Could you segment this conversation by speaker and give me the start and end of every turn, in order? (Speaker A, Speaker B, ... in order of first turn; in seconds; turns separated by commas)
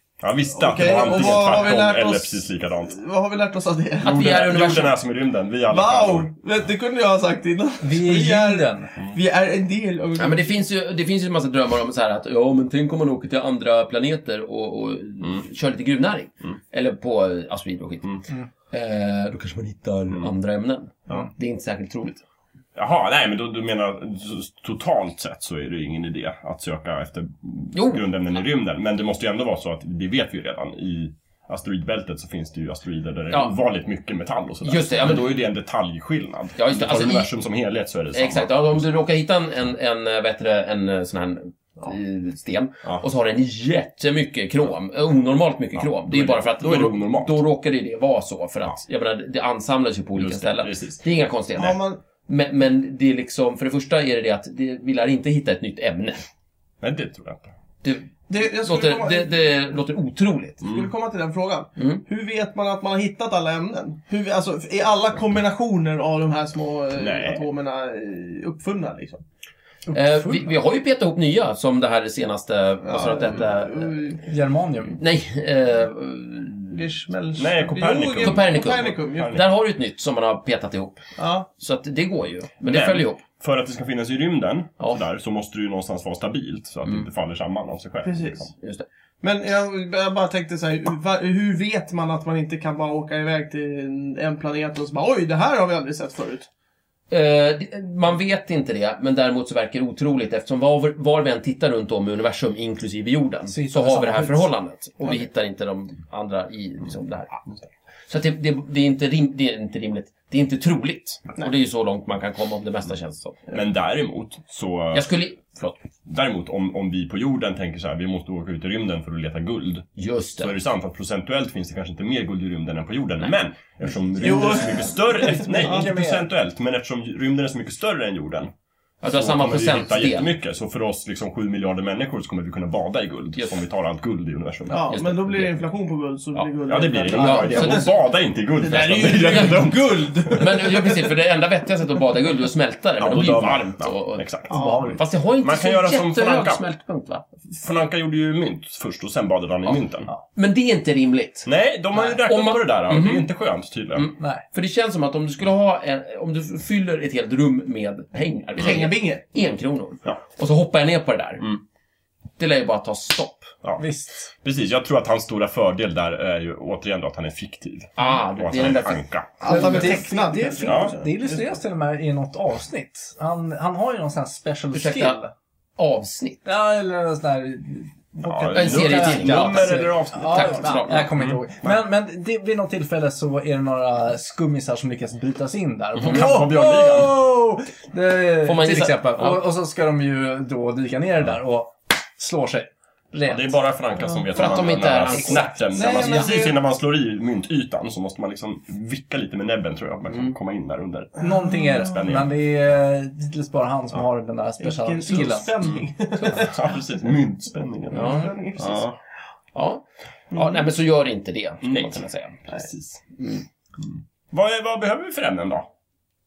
Speaker A: 0.2-3.0, Speaker B: 0.6-4.4, Speaker C: 4.0-4.9, Speaker A: 4.0-6.3, Speaker B: 5.7-10.6, Speaker D: 7.8-8.9, Speaker C: 10.2-18.2, Speaker C: 18.7-22.2, Speaker A: 22.8-38.8, Speaker C: 27.7-28.1, Speaker C: 34.6-35.4, Speaker C: 36.6-37.3, Speaker C: 38.1-56.2, Speaker A: 45.8-47.4, Speaker A: 50.1-51.0, Speaker B: 51.5-52.0, Speaker A: 56.8-57.5, Speaker C: 57.8-60.6, Speaker B: 58.3-59.5, Speaker B: 60.6-69.2, Speaker A: 60.6-60.9, Speaker C: 61.8-62.0, Speaker A: 67.0-67.5, Speaker D: 69.9-70.5, Speaker C: 69.9-74.0, Speaker B: 72.9-74.3, Speaker D: 74.3-75.0, Speaker C: 74.9-77.0, Speaker B: 76.7-79.4, Speaker A: 77.4-79.5, Speaker C: 78.2-81.0, Speaker B: 81.2-81.5, Speaker C: 81.6-83.2, Speaker A: 82.7-88.5, Speaker B: 88.0-88.5, Speaker C: 88.6-88.8, Speaker B: 89.2-96.5, Speaker C: 97.1-107.4, Speaker D: 103.5-104.5, Speaker C: 108.1-113.4, Speaker A: 113.5-115.1, Speaker C: 114.9-115.8, Speaker A: 116.1-119.9, Speaker C: 120.0-120.6, Speaker A: 120.4-128.5, Speaker C: 124.2-124.6, Speaker B: 124.2-125.9, Speaker D: 125.1-126.3, Speaker C: 129.0-130.3, Speaker A: 129.1-134.8, Speaker C: 133.4-133.6, Speaker B: 134.7-138.0, Speaker C: 134.9-135.7, Speaker C: 136.3-137.9, Speaker A: 136.7-140.4, Speaker B: 138.6-141.2, Speaker C: 139.1-139.7, Speaker C: 140.3-147.2, Speaker A: 143.0-144.5, Speaker B: 144.5-144.9, Speaker D: 144.5-145.0, Speaker A: 145.4-146.6, Speaker A: 147.5-150.1, Speaker C: 150.3-153.3, Speaker A: 151.4-154.1, Speaker C: 153.9-161.6, Speaker D: 154.2-154.4, Speaker B: 158.6-159.2, Speaker C: 162.4-163.5, Speaker D: 163.8-164.3, Speaker A: 164.4-169.8, Speaker C: 168.0-169.8, Speaker B: 169.4-171.6, Speaker D: 169.4-175.3, Speaker A: 170.6-170.9, Speaker C: 174.7-175.2, Speaker C: 175.8-176.4, Speaker D: 176.4-193.5, Speaker A: 178.2-181.7, Speaker C: 178.5-181.1, Speaker A: 185.9-187.1, Speaker C: 188.4-189.4, Speaker A: 193.2-202.4, Speaker C: 194.3-196.1, Speaker B: 195.7-196.6, Speaker C: 200.1-200.3, Speaker D: 201.2-205.5, Speaker B: 204.6-206.8, Speaker A: 205.6-209.0, Speaker C: 207.9-208.3, Speaker B: 207.9-208.9, Speaker C: 209.5-212.4, Speaker B: 210.3-210.7, Speaker A: 211.6-213.0, Speaker C: 213.2-213.4, Speaker A: 213.8-215.7